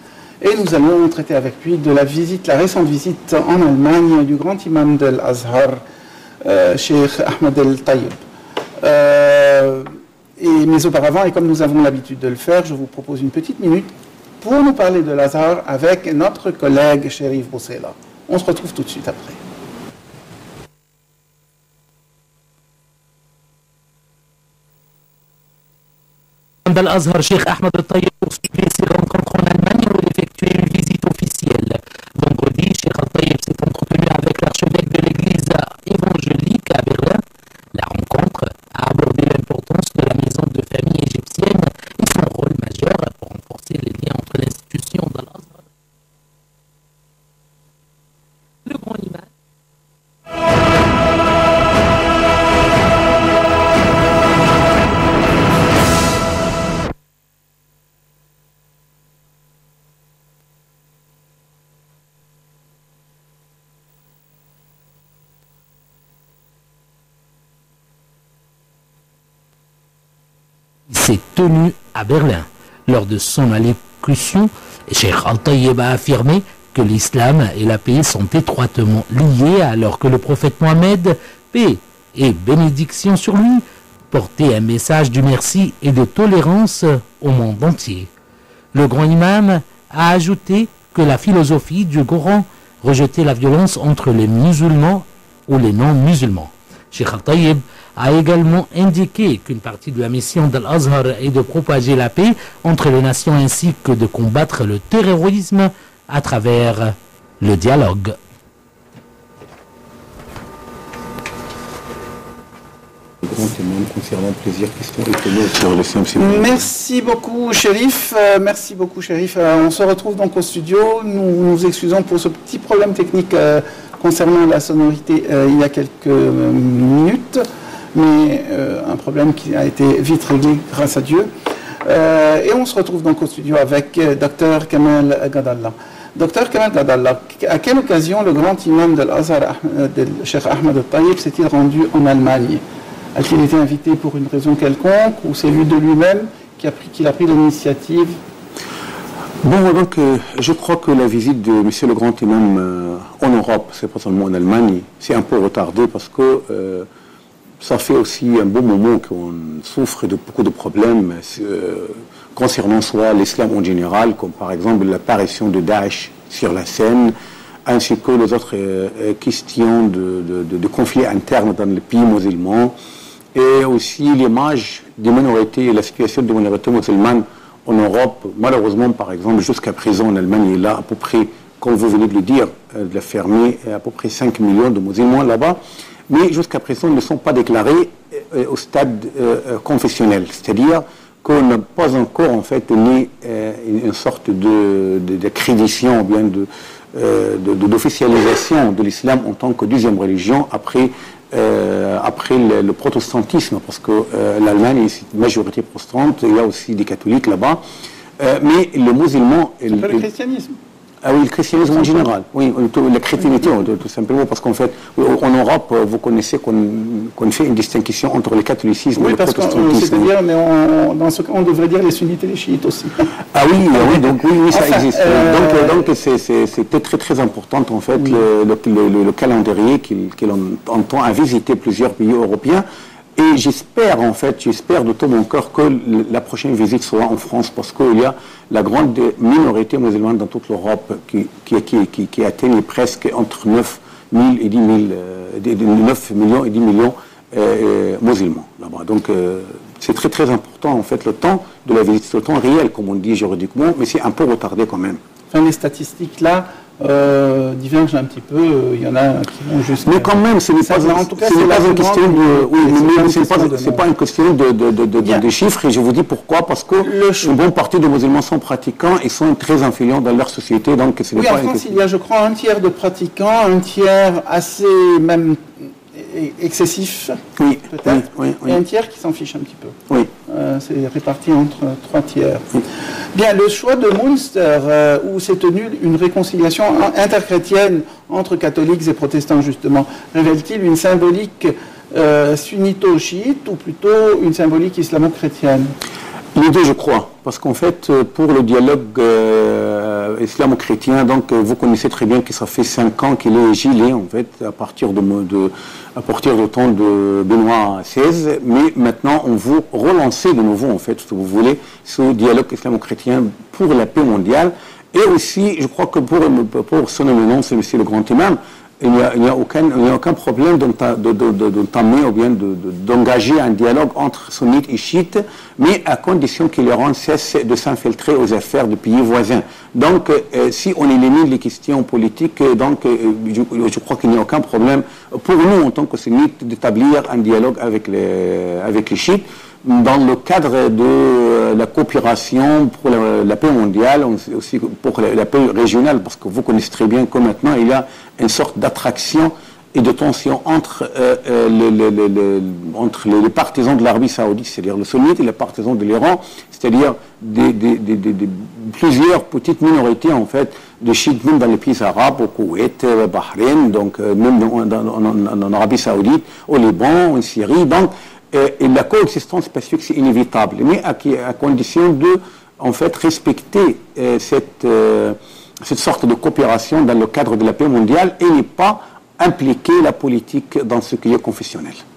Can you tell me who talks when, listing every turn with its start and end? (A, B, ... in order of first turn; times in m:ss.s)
0:00.4-0:05.8 A
0:06.4-0:08.2 A
0:08.8-0:19.4 A
0:26.6-0:37.2 B
0:37.7-0:45.6 B
0:48.6-0:49.3 B
1:10.9-1:28.1 B
1:28.7-1:48.2 B
1:53.2-1:56.7 C
1:56.2-2:11.3 A
2:11.8-2:22.6 A
2:23.1-2:28.2 A
2:29.4-2:36.9 C
2:37.6-2:47.1 C
2:47.6-2:52.7 C
2:53.3-3:27.6 C
3:28.2-3:30.1 C
3:29.7-3:30.6 A
3:31.0-3:40.1 C
3:38.9-3:43.0 A
3:43.3-3:52.6 C
3:43.9-3:45.8 A
3:53.2-4:15.0 C
4:15.3-4:23.8 A
4:19.8-4:31.8 C
4:26.8-4:27.4 A
4:31.1-4:39.8 A
4:37.4-4:38.6 C
4:40.3-4:42.5 A
4:43.1-4:55.7 A
4:56.3-6:21.8 C